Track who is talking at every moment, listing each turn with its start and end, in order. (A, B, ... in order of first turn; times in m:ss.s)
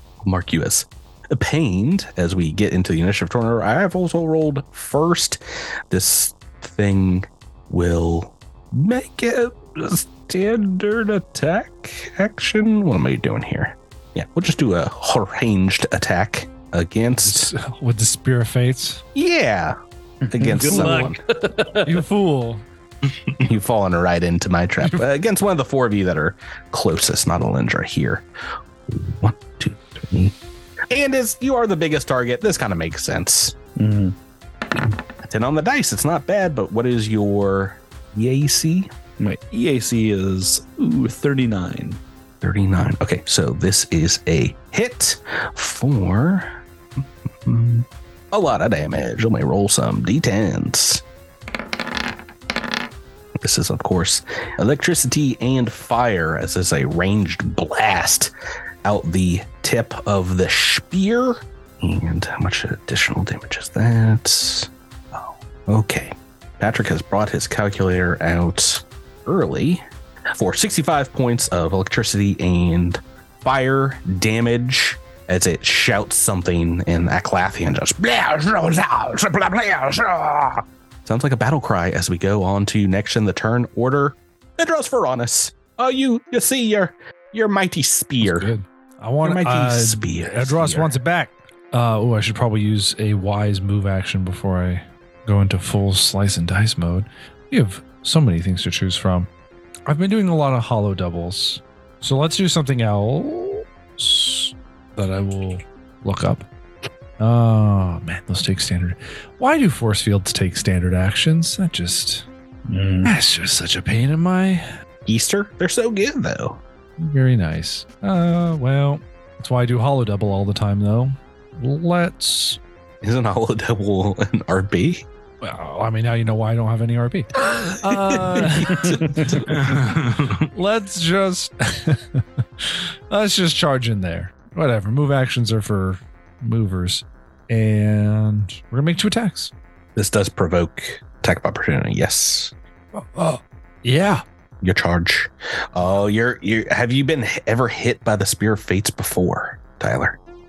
0:00.2-0:17.5 A
0:17.2-0:19.0 B
0:19.2-0:19.8 A
0:20.2-0:22.0 C
0:20.3-0:21.2 A
0:20.6-0:21.1 B
0:21.8-0:22.6 B
0:23.4-0:28.3 A
0:28.9-0:30.4 A
0:30.9-0:33.6 A
0:33.8-0:34.2 C
0:34.8-0:38.9 A
0:39.2-0:42.0 C
0:42.4-0:51.0 A
0:53.4-0:58.3 A
0:58.8-1:28.5 A
1:28.2-1:39.3 B
1:29.2-1:30.9 A
1:39.9-1:46.5 B
1:47.2-1:52.3 B
1:52.7-1:53.1 C
1:53.0-1:54.7 B
1:55.0-1:56.6 A
1:57.0-2:02.6 B
2:03.0-2:05.1 A
2:05.4-2:19.5 B
2:07.9-2:09.8 A
2:20.0-2:22.5 A
2:22.9-2:24.2 B
2:24.6-2:30.2 A